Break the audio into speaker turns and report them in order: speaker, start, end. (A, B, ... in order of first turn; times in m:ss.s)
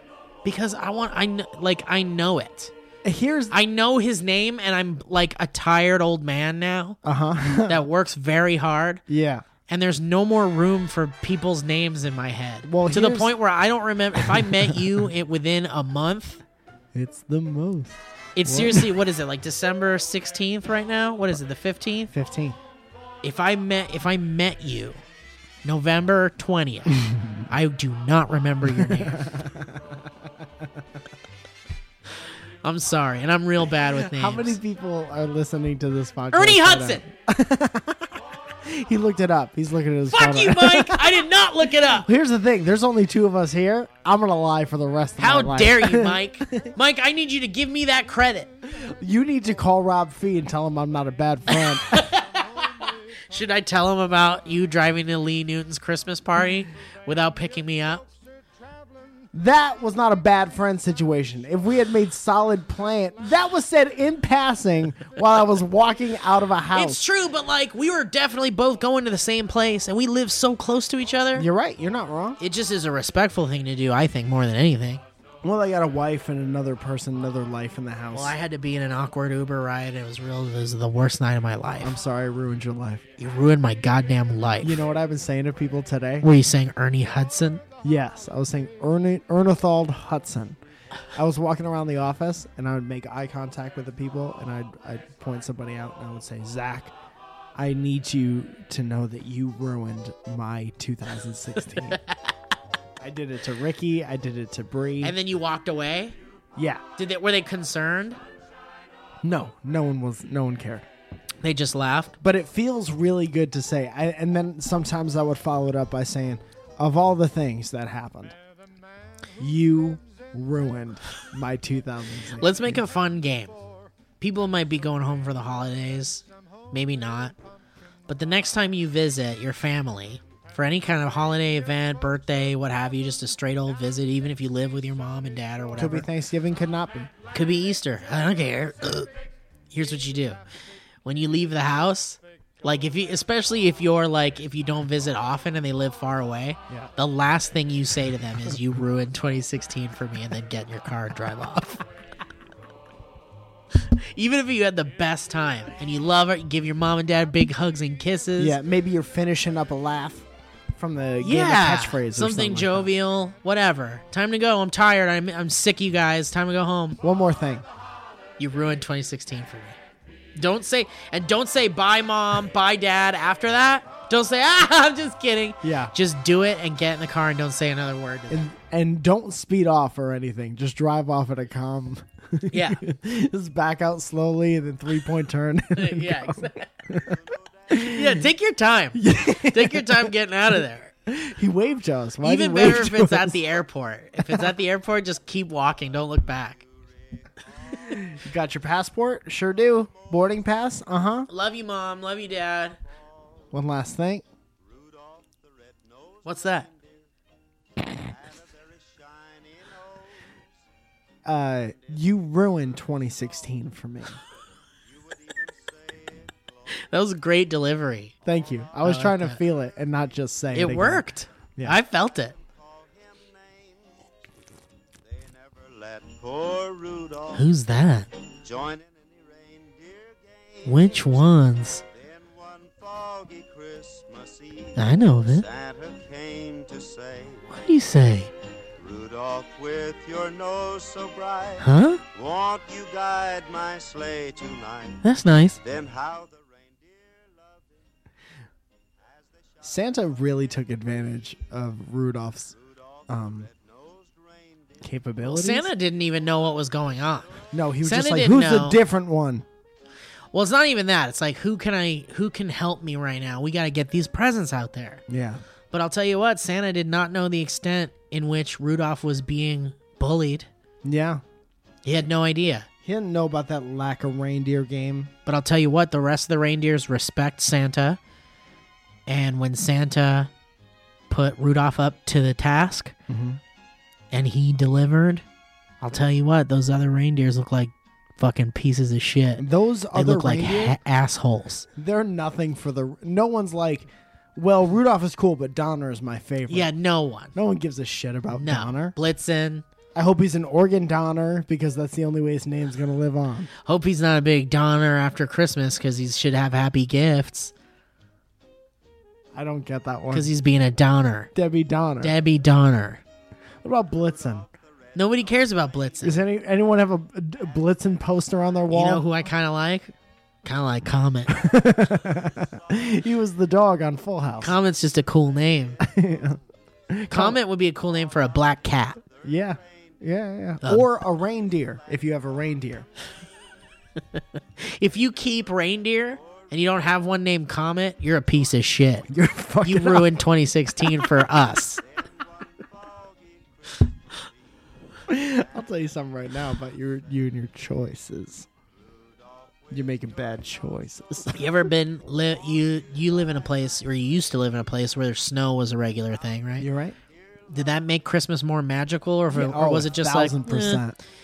0:00.4-0:02.7 A
0:03.0-0:03.5 B
0:03.5-0:07.0 A
0:07.0-0:07.8 B
0:07.6-0:09.0 A
0:09.1-0:09.4 B
0:09.7-0:16.4 A
0:12.6-0:13.3 B
0:14.2-0:15.0 B
0:16.9-0:18.9 B
0:18.4-0:22.1 A
0:22.1-0:22.6 B
0:23.2-0:25.0 A
0:25.6-0:29.2 A
0:27.0-0:27.5 B
0:28.8-0:30.1 B
0:32.6-0:34.6 A
0:33.8-0:41.3 B
0:36.3-0:37.0 A
0:40.1-0:42.1 A
0:41.9-0:46.7 B
0:45.2-0:48.5 A
0:48.8-0:52.0 B
0:51.5-0:58.1 A
0:59.3-1:07.0 B
1:06.7-1:11.5 A
1:11.4-1:12.4 B
1:12.4-1:15.0 A
1:15.4-1:18.4 B
1:18.1-1:22.0 A
1:21.8-1:23.0 B
1:23.2-1:24.8 A
1:24.6-1:26.3 B
1:26.2-1:27.6 A
1:27.8-1:30.6 B
1:31.1-1:36.9 B
1:37.6-1:42.0 B
1:41.7-1:42.3 A
1:43.0-1:45.2 B
1:45.0-1:46.2 A
1:46.6-1:46.8 B
1:47.0-1:48.2 A
1:49.2-1:50.9 B
1:51.4-1:52.2 A
1:52.2-1:58.4 B
1:59.4-2:02.8 B
2:02.4-2:03.6 A
2:04.2-2:07.4 A
2:08.1-2:16.1 A
2:15.8-2:17.1 B
2:17.3-2:19.1 A
2:19.7-2:20.4 A
2:21.0-2:31.8 A
2:33.7-2:38.6 A
2:38.4-2:42.9 B
2:41.2-2:47.0 A
2:47.0-2:47.7 B
2:48.4-2:49.8 A
2:50.4-2:58.4 A
2:55.6-2:55.9 B
2:58.3-3:07.2 B
3:02.5-3:02.8 A
3:05.8-3:06.7 A
3:07.7-3:08.2 B
3:07.7-3:10.9 A
3:09.0-3:10.1 B
3:11.1-3:13.5 B
3:12.2-3:16.6 A
3:14.2-3:14.5 B
3:17.9-3:21.3 B
3:21.3-3:22.8 A
3:23.5-3:24.2 B
3:24.6-3:26.9 C
3:26.2-3:26.7 A
3:27.9-3:30.0 C
3:31.2-3:34.2 B
3:34.9-3:36.2 C
3:36.9-3:38.2 A
3:38.2-3:41.8 B
3:38.8-3:39.4 A
3:40.5-3:42.4 A
3:42.7-3:43.9 C
3:45.1-3:47.5 C
3:47.3-3:48.1 A
3:48.4-3:57.5 C
3:50.6-3:51.8 A
3:54.8-3:55.5 A
3:57.5-3:58.3 A
3:58.8-4:05.0 C
4:01.6-4:02.0 A
4:05.0-4:05.6 A
4:05.6-4:07.7 C
4:09.6-4:12.5 B
4:13.1-4:13.5 B
4:13.1-4:14.8 C
4:14.8-4:15.7 B
4:15.2-4:18.8 A
4:17.5-4:19.4 B
4:20.3-4:25.0 A
4:25.1-4:25.4 B
4:25.7-4:30.5 A
4:30.8-4:31.2 B
4:31.8-4:32.7 A
4:32.8-4:35.1 B
4:35.3-4:38.0 A
4:39.1-4:40.3 A
4:41.1-4:43.0 A
4:43.1-4:43.4 B
4:44.1-4:45.2 A
4:45.8-4:51.7 A
4:49.4-4:50.8 B
4:51.8-4:56.7 B
4:56.5-4:57.3 A
4:57.3-4:59.0 B
4:58.3-4:59.6 A
5:00.0-5:03.5 B
5:03.6-5:07.5 A
5:09.3-5:10.3 B
5:10.1-5:11.3 A
5:11.4-5:12.2 B
5:12.0-5:13.0 A
5:13.6-5:14.5 B
5:15.0-5:16.2 A
5:16.0-5:19.0 B
5:18.7-5:19.9 A
5:20.4-5:21.4 A
5:21.3-5:24.6 B
5:24.4-5:25.8 A
5:25.8-5:27.4 B
5:27.1-5:29.0 A
5:29.2-5:32.9 B
5:30.6-5:30.9 A
5:34.2-5:39.1 A
5:39.1-5:40.2 B
5:39.6-5:41.8 A
5:42.4-5:43.4 C
5:45.1-5:48.5 B
5:49.7-5:51.5 B
5:51.3-5:56.7 A
5:56.6-5:57.0 B
5:57.5-6:00.8 A
5:59.3-6:01.0 B